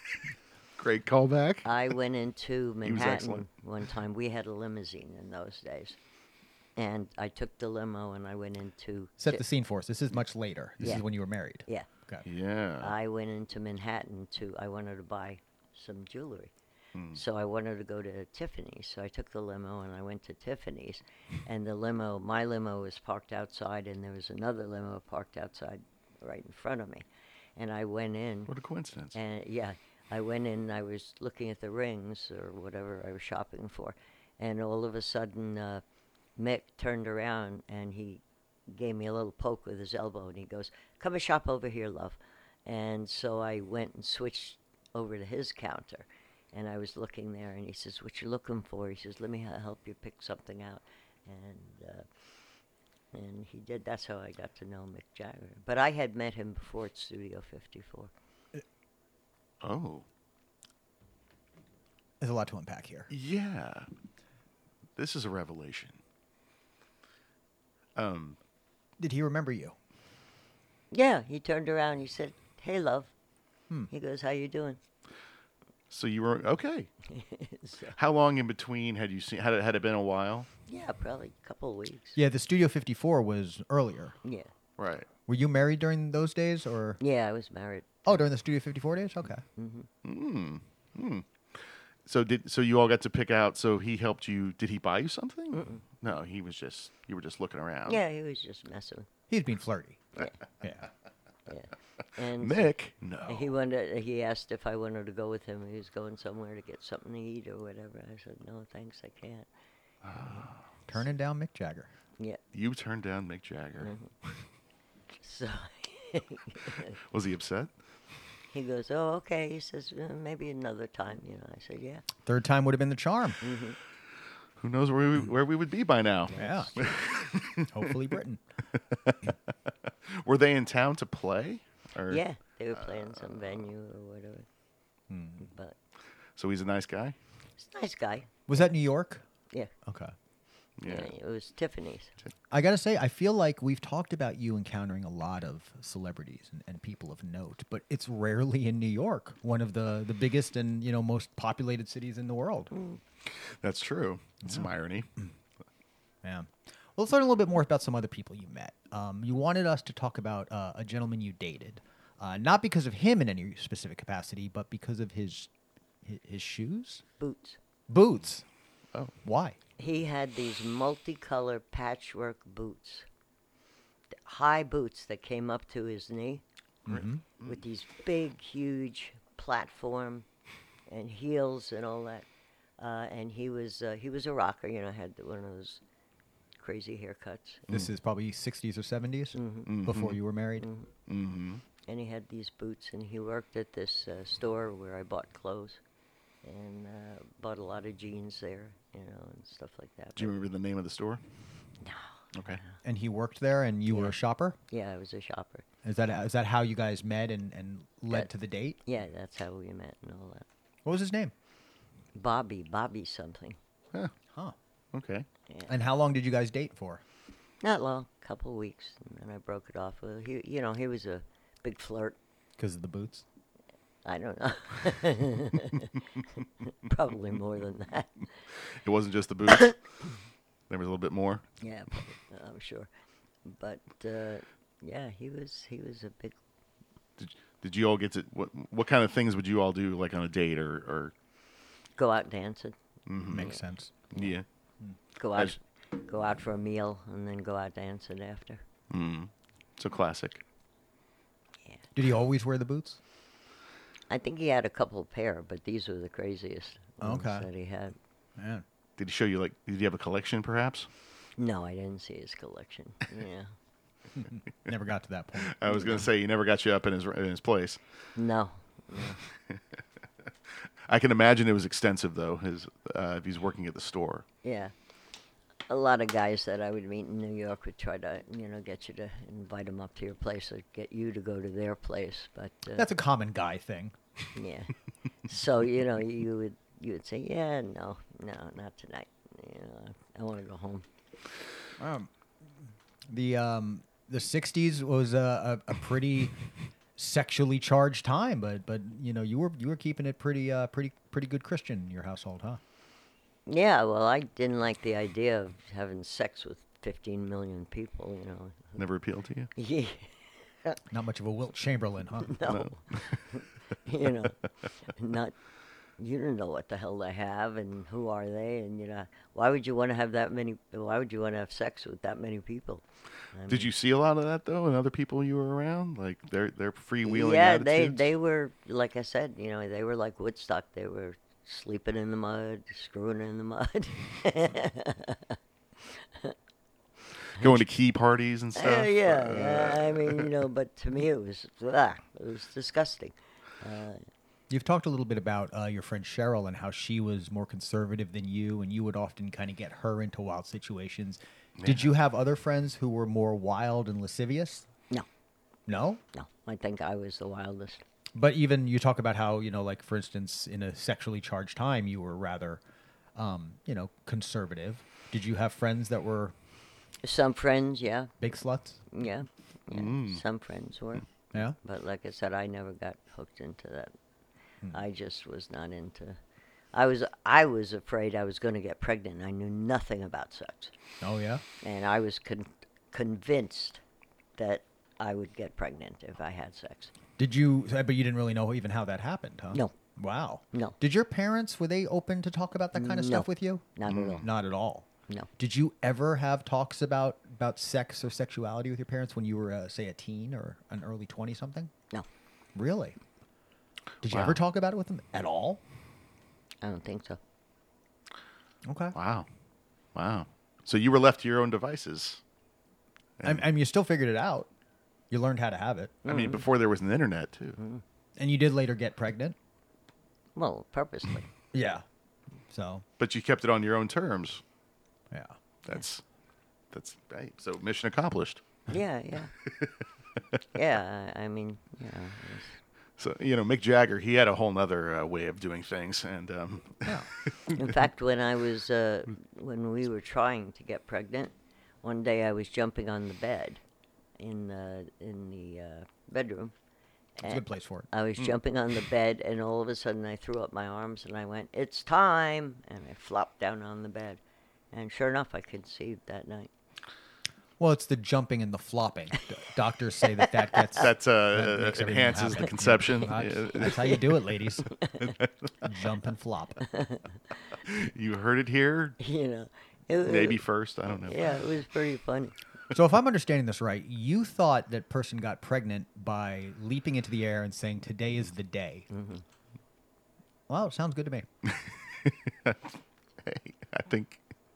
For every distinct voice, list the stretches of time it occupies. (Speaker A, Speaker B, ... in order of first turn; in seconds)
Speaker A: 0.8-1.7, 2.8-3.4, 12.2-12.9, 16.9-17.2, 28.5-29.1, 59.6-60.0, 63.1-63.9, 65.0-66.0, 68.0-68.4, 75.9-76.9, 78.0-80.5, 84.8-85.1, 90.0-98.0, 102.3-103.5, 110.0-110.6, 112.5-113.9, 117.0-117.7, 124.6-127.9, 128.8-129.3, 129.9-132.2, 132.8-133.6, 136.3-137.2, 140.8-141.1, 153.2-155.1, 176.9-177.6, 189.7-190.2, 191.1-191.6, 200.2-201.2, 202.3-202.6, 214.9-215.3, 228.7-229.8, 230.7-231.4, 237.2-241.1, 243.1-243.5, 244.1-244.4, 248.9-250.4, 259.0-260.9, 265.4-267.8, 270.9-274.2, 308.8-309.5, 312.4-313.4, 323.5-328.1, 337.4-340.3, 351.6-351.9, 369.7-370.2, 393.9-394.2, 404.1-404.4, 408.9-409.2, 409.9-412.2, 413.2-413.5, 416.1-417.6, 423.0-424.4, 425.6-426.0, 426.7-428.6, 429.4-429.7, 433.0-437.6, 460.7-464.1, 465.0-465.3, 467.6-469.0, 470.0-471.4, 481.4-484.2
Speaker B: 1.6-6.0, 6.8-9.4, 12.8-16.5, 17.1-27.0, 27.6-28.5, 29.1-35.8, 36.4-52.1, 53.1-58.1, 70.9-73.1, 73.9-74.8, 77.1-78.0, 80.7-82.2, 84.2-84.5, 87.0-88.0, 89.5-89.9, 95.5-95.8, 97.8-99.1, 101.5-102.7, 103.2-109.5, 113.8-114.1, 115.2-117.0, 118.5-122.0, 123.4-123.8, 126.3-127.0, 132.1-134.5, 135.4-135.8, 137.6-138.7, 140.8-142.1, 167.2-167.6, 169.8-173.1, 174.2-176.4, 177.4-180.2, 180.9-182.2, 182.8-185.8, 186.6-187.7, 189.3-189.7, 190.6-190.9, 191.9-195.8, 196.4-200.3, 201.8-202.8, 203.9-204.2, 204.7-205.6, 208.8-210.4, 212.1-213.6, 215.5-215.7, 217.6-222.2, 224.0-228.3, 231.6-232.9, 233.4-236.4, 242.0-242.8, 245.2-248.6, 254.1-257.9, 261.4-263.5, 268.1-269.2, 274.4-274.7, 275.7-282.9, 284.3-290.9, 303.5-308.8, 309.5-310.8, 312.2-315.4, 316.0-323.7, 327.0-336.3, 338.6-344.0, 356.1-357.8, 367.0-368.1, 368.9-373.9, 374.7-376.2, 376.7-380.7, 381.6-383.8, 384.4-386.9, 392.7-394.3, 406.6-407.2, 416.0-416.4, 417.6-417.8, 420.4-421.3, 428.7-429.3, 430.5-432.6, 437.5-443.6, 444.2-446.5, 447.2-454.2, 454.7-456.5, 460.2-460.9, 463.6-464.1, 464.7-465.1, 466.7-467.1, 469.0-472.3, 478.9-479.2
Speaker C: 9.2-12.2, 62.2-63.1, 69.0-69.8, 82.2-84.2, 85.3-87.0, 88.0-89.4, 99.3-100.9, 110.9-111.9, 122.2-123.4, 126.3-126.8, 127.7-128.4, 135.1-135.5, 138.5-139.2, 139.8-140.1, 142.5-152.7, 154.4-154.7, 156.2-165.5, 166.0-167.0, 167.9-168.4, 169.2-169.6, 176.9-177.2, 187.7-190.7, 202.8-204.6, 205.8-208.8, 210.8-211.3, 215.7-217.0, 222.6-223.2, 243.3-243.9, 251.9-253.0, 257.0-257.4, 258.4-258.6, 264.1-266.0, 282.8-283.9, 291.8-292.1, 293.1-296.4, 296.9-302.6, 310.9-312.4, 344.5-354.7, 355.7-356.0, 358.1-362.6, 363.1-366.3, 368.2-368.8, 381.0-381.4, 387.2-394.9, 395.4-401.7, 402.5-402.9, 404.0-405.6, 408.6-408.9, 413.2-414.5, 415.1-416.0, 418.2-419.4, 421.5-421.8, 422.5-422.8, 447.2-447.9, 457.6-464.8, 465.6-466.6, 472.7-478.9, 480.5-481.2